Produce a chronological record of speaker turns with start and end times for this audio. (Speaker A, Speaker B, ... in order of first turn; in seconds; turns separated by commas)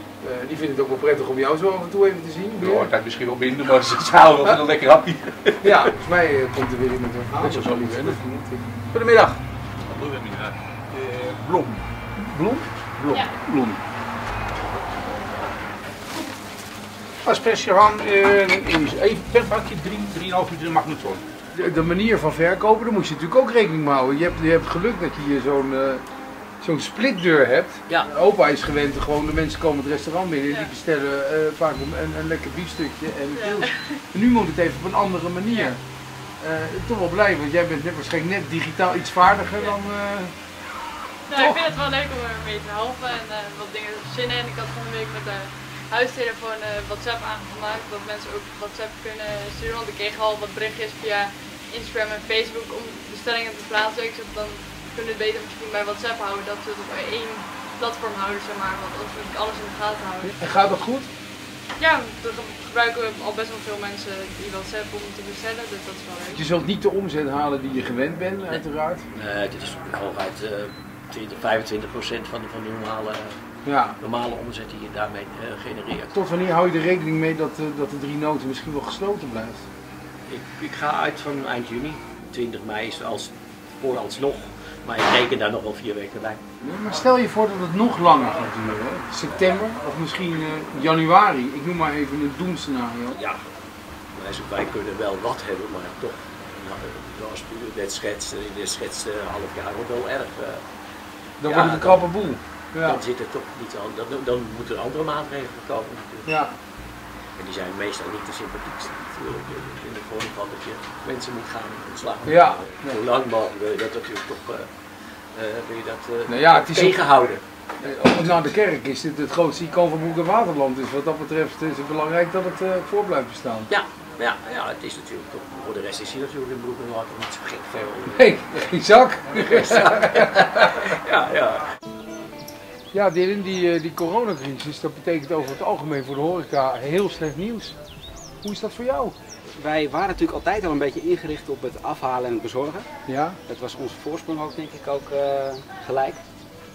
Speaker A: 0.2-2.9, Speaker B: 2.6-5.7, Speaker A: 5.6-8.6, Speaker B: 7.4-8.2, Speaker B: 8.9-13.8, Speaker C: 13.1-13.3, Speaker B: 17.2-21.2, Speaker A: 21.5-26.0, Speaker A: 26.6-35.8, Speaker C: 33.3-34.0, Speaker C: 35.5-35.7, Speaker A: 36.4-40.3, Speaker C: 41.3-60.3, Speaker A: 41.3-41.7, Speaker A: 60.2-61.1, Speaker C: 61.8-66.4, Speaker A: 66.3-69.0, Speaker D: 69.1-73.4, Speaker A: 73.6-74.0, Speaker D: 74.0-76.1, Speaker A: 76.1-79.7, Speaker D: 80.3-86.4, Speaker A: 86.6-93.2, Speaker D: 93.1-93.4, Speaker D: 94.1-100.6, Speaker A: 101.4-103.0, Speaker D: 101.4-106.3, Speaker A: 106.2-106.6, Speaker D: 107.3-117.4, Speaker A: 112.2-113.0, Speaker A: 116.3-123.7, Speaker D: 123.7-128.7, Speaker A: 128.1-130.9, Speaker D: 129.3-131.8, Speaker A: 132.9-137.8, Speaker A: 138.4-139.1, Speaker E: 139.5-142.9, Speaker A: 143.1-143.4, Speaker E: 143.5-146.2